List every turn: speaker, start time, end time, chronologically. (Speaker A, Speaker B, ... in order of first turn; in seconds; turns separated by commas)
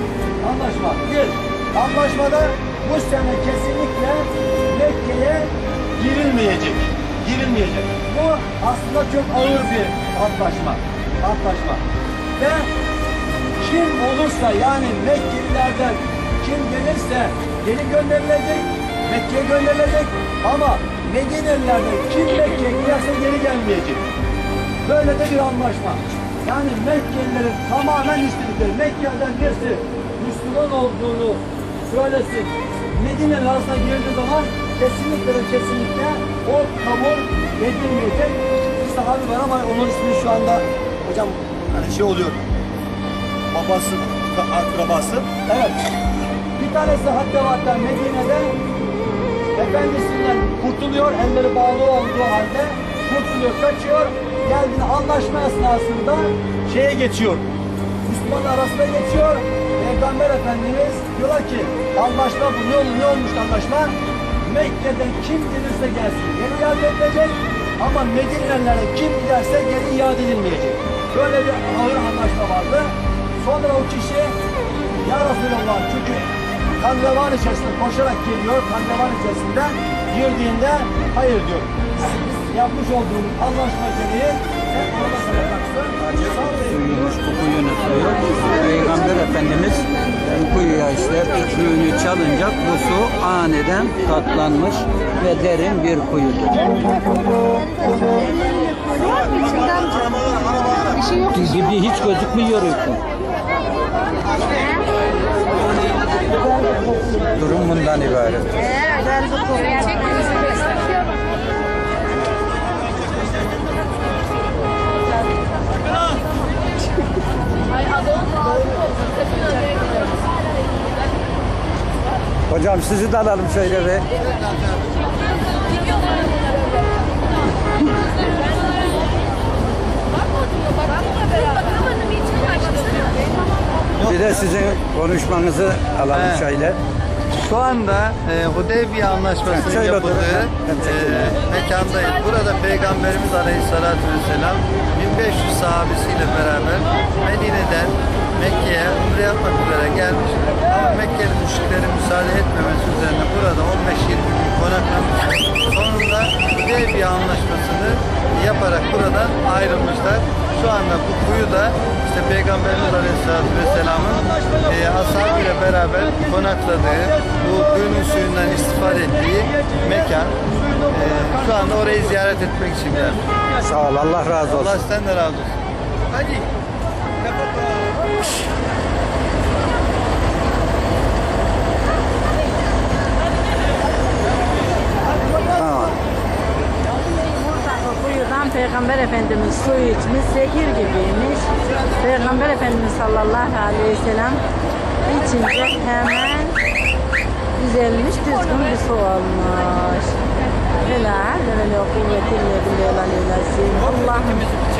Speaker A: 0.4-11.8, Speaker A: 12.4-12.7, Speaker A: 13.6-24.0, Speaker A: 24.9-42.4, Speaker A: 43.5-45.8, Speaker A: 46.6-48.6, Speaker A: 49.6-57.5, Speaker A: 58.1-74.3, Speaker A: 75.0-81.7, Speaker A: 82.5-86.9, Speaker B: 86.7-97.0, Speaker B: 101.2-103.0, Speaker B: 107.3-108.8, Speaker B: 122.5-124.2, Speaker B: 134.0-136.8, Speaker C: 136.1-136.4, Speaker C: 137.3-170.4, Speaker B: 139.4-141.4, Speaker A: 163.8-172.0, Speaker C: 171.0-173.2, Speaker B: 173.6-174.8, Speaker C: 174.5-175.6, Speaker C: 176.1-176.4, Speaker B: 185.5-186.0, Speaker D: 187.2-191.5, Speaker D: 192.0-194.4, Speaker D: 195.1-196.6, Speaker D: 197.6-200.2, Speaker D: 200.8-204.4